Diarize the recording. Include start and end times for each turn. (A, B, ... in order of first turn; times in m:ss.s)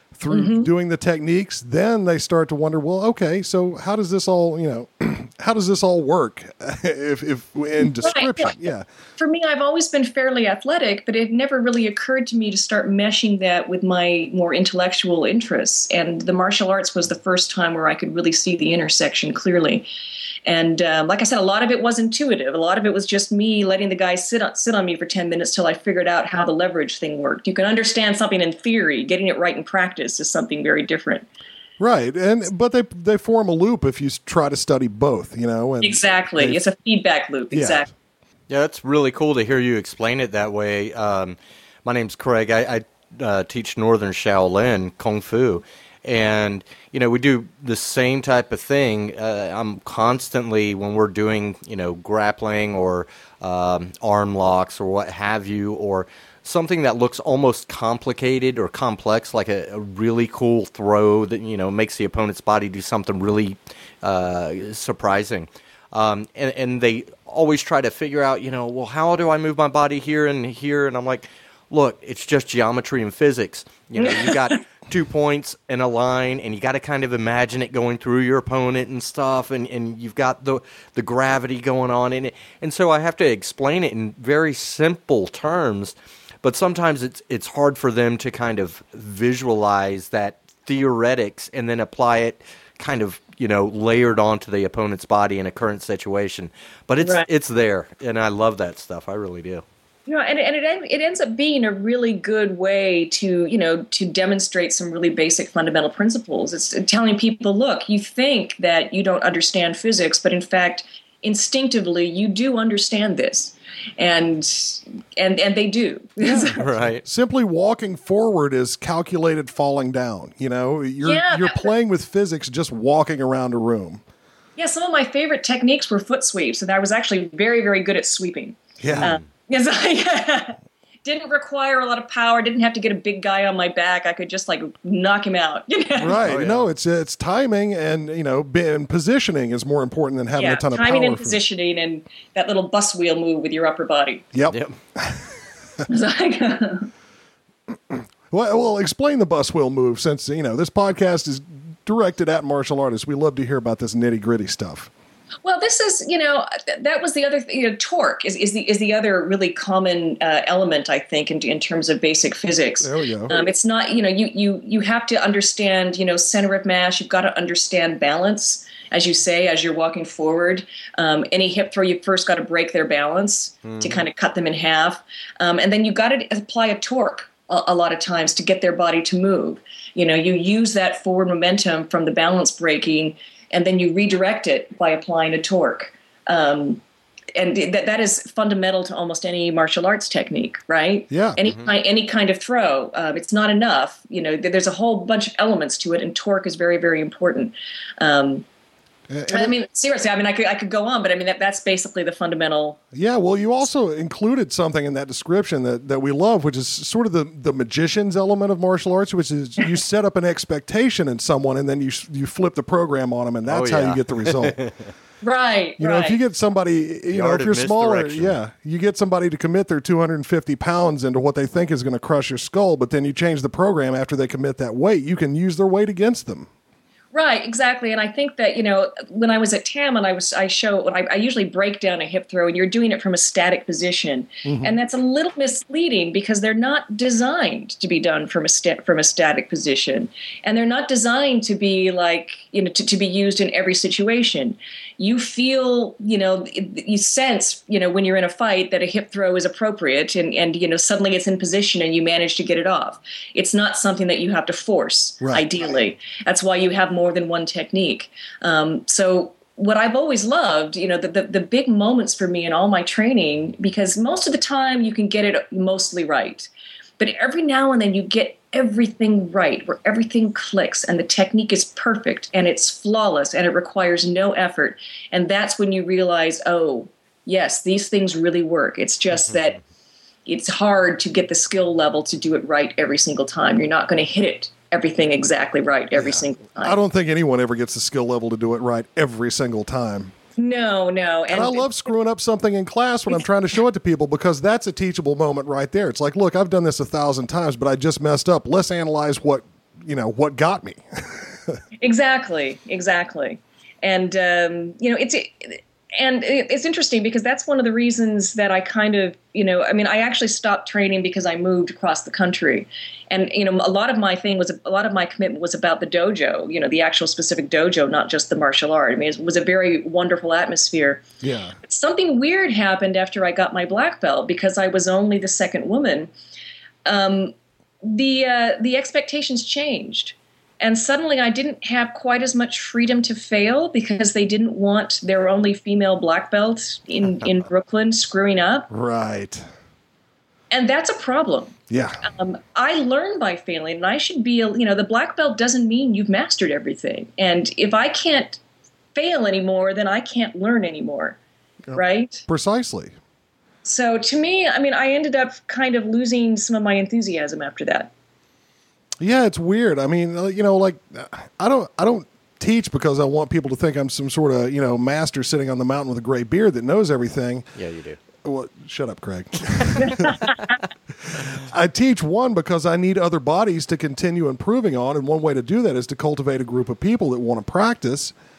0:00.2-0:08.9 A
0:00.3-0:00.7 B
0:07.8-0:08.5 B
0:09.2-0:19.9 B
0:20.4-0:31.3 B
0:31.8-0:36.6 A
0:35.8-0:37.9 B
0:37.5-0:37.9 A
0:38.5-1:39.6 C
1:14.0-1:14.6 B
1:37.0-1:37.3 B
1:40.1-1:56.8 B
1:56.2-1:57.0 C
1:57.0-2:04.0 A
2:01.0-2:01.7 B
2:04.6-2:16.2 B
2:08.8-2:09.1 A
2:08.9-2:09.2 C
2:16.0-2:21.4 A
2:16.2-2:16.7 C
2:20.4-2:24.3 B
2:24.3-2:25.3 A
2:24.5-2:24.8 C
2:25.9-2:26.9 B
2:27.9-2:34.9 A
2:35.4-3:06.8 B
2:42.8-2:43.4 A
3:07.3-3:18.4 B
3:11.1-3:11.4 A
3:19.1-3:19.5 A
3:19.3-3:22.8 B
3:22.9-3:34.6 A
3:33.5-3:34.9 C
3:35.2-3:36.2 B
3:35.8-3:46.5 A
3:37.1-3:38.4 C
3:47.1-4:39.6 B
3:54.5-3:54.7 A
4:15.2-4:15.5 A
4:40.3-4:46.8 B
4:46.0-4:50.1 A
4:50.4-4:51.9 B
4:51.3-5:01.6 A
5:01.8-5:21.0 B
5:21.2-5:21.6 A
5:21.6-5:26.1 B
5:26.8-5:38.7 B
5:38.7-5:39.4 A
5:40.5-5:48.4 B
5:41.7-5:42.0 A
5:48.9-5:51.2 B
5:51.7-5:52.9 A
5:51.7-5:52.2 B
5:53.6-5:57.9 B
5:59.0-6:07.5 A
6:07.5-6:08.0 C
6:08.2-6:10.2 A
6:09.8-6:10.3 B
6:11.0-6:18.1 A